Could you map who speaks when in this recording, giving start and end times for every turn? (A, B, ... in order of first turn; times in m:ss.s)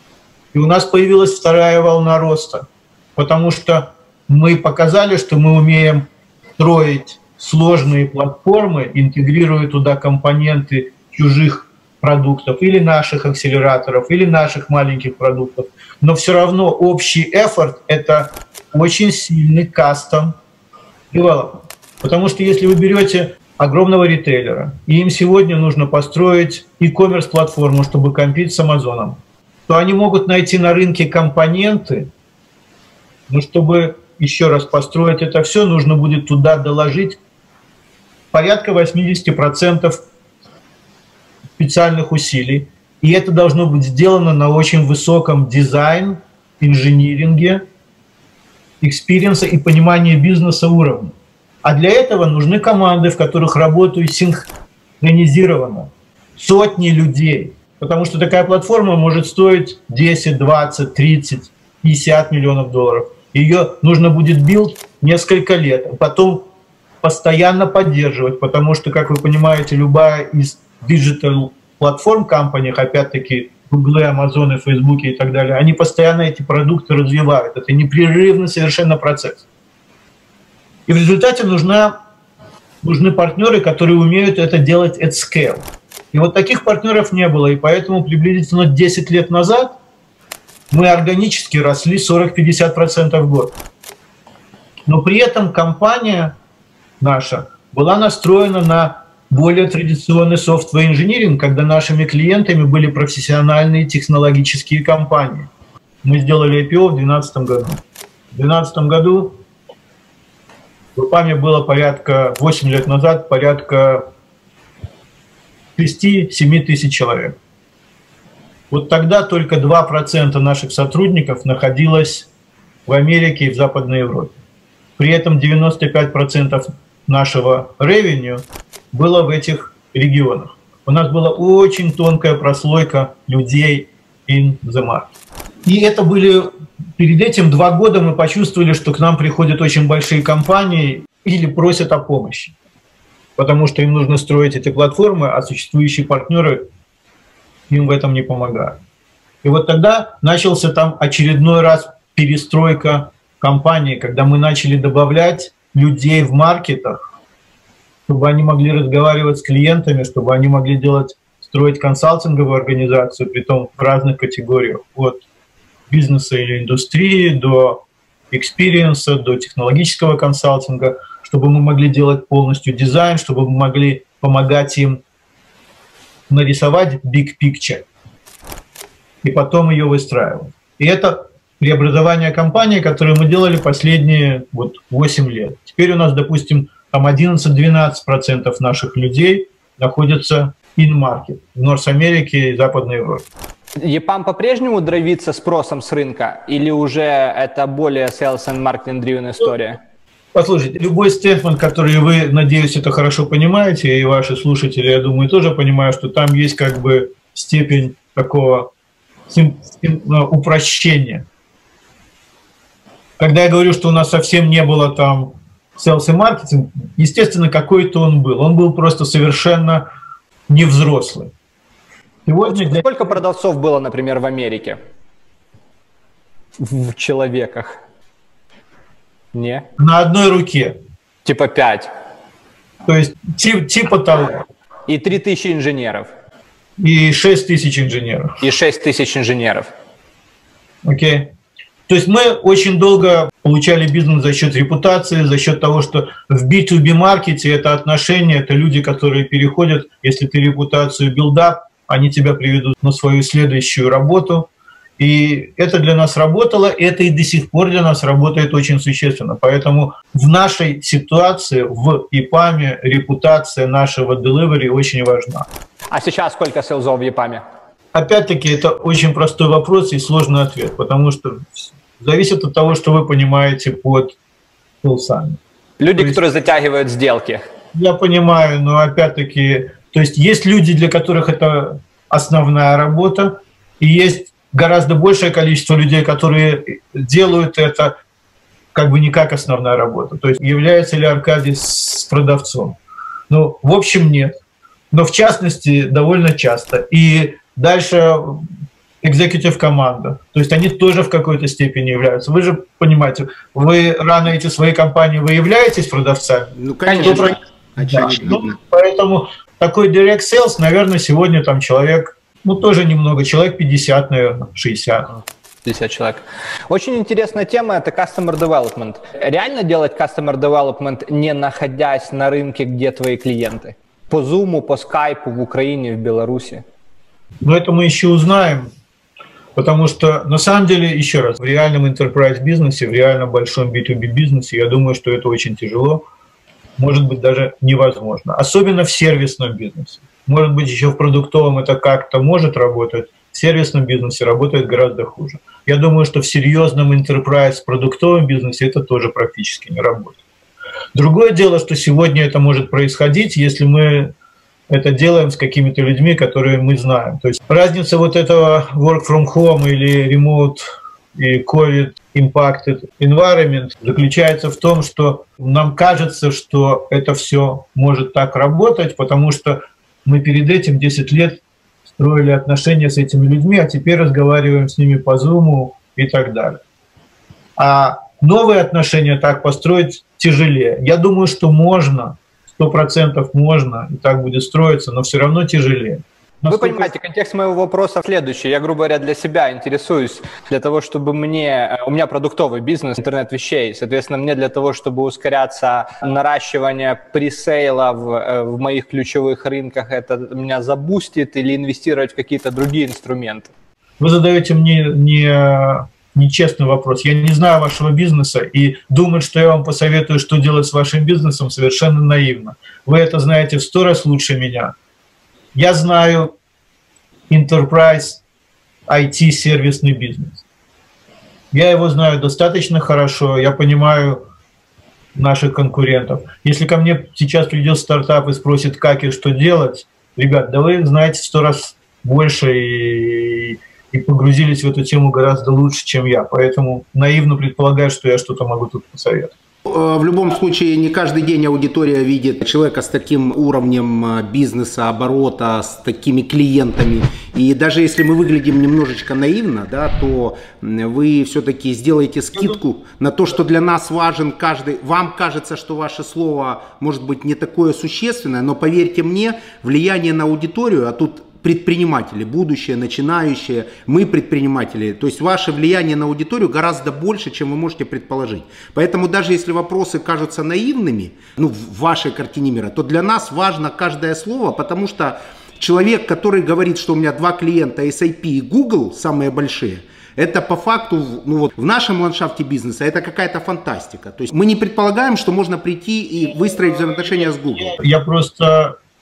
0:00.5-0:20.4 A
0:21.1-0:32.1 A
0:33.3-0:37.2 A
0:38.3-0:40.0 A
0:41.6-0:47.6 A
0:48.8-0:54.5 A
0:55.0-1:06.5 A
1:07.0-1:19.4 A
1:20.9-1:22.0 A
1:22.8-1:29.8 A
1:30.7-1:33.6 A
1:34.9-1:36.4 A
1:37.0-1:45.5 A
1:46.0-1:47.8 A
1:48.3-1:49.4 A
1:51.0-1:54.0 A
1:55.8-1:57.4 A
1:58.7-2:02.3 A
2:02.9-2:04.4 A
2:05.0-2:15.1 A
2:15.6-2:22.6 A
2:23.4-2:26.7 A
2:27.7-2:28.8 A
2:29.4-2:37.0 A
2:38.1-2:45.2 A
2:45.9-2:55.0 A
2:56.3-2:57.8 A
2:59.2-3:13.2 A
3:13.8-3:19.8 B
3:20.3-3:28.7 A
3:29.3-3:31.2 A
3:33.2-3:39.9 A
3:40.5-3:41.3 A
3:42.3-3:42.9 A
3:42.5-3:44.8 B
3:46.6-3:47.8 B
3:49.3-3:49.7 B
3:49.8-3:50.8 A
3:51.2-3:51.9 B
3:52.9-3:54.4 A
3:54.9-3:56.1 B
3:56.8-3:58.4 A
3:58.4-3:59.7 B
4:00.8-4:01.3 A
4:01.9-4:25.5 A
4:25.9-4:27.4 B
4:27.9-4:34.2 A
4:34.8-4:35.4 A
4:35.8-4:37.4 B
4:35.9-4:36.2 A
4:37.7-4:47.9 A
4:48.7-4:52.8 A
4:53.3-4:54.3 A
4:54.9-4:58.4 A
4:59.0-5:15.2 A
5:06.6-5:08.4 C
5:15.6-5:26.6 B
5:27.4-5:28.7 A
5:29.6-5:36.0 A
5:36.8-5:50.2 A
5:51.0-5:54.1 A
5:54.7-6:11.4 A
6:12.0-6:16.6 A
6:17.6-6:26.9 A
6:26.5-6:43.5 B
6:44.0-6:54.7 A
6:55.5-6:56.3 A
6:57.3-6:58.2 A
6:58.9-7:00.4 A
7:01.5-7:04.2 A
7:05.2-7:19.3 A
7:19.7-8:07.8 C
8:07.6-8:08.8 A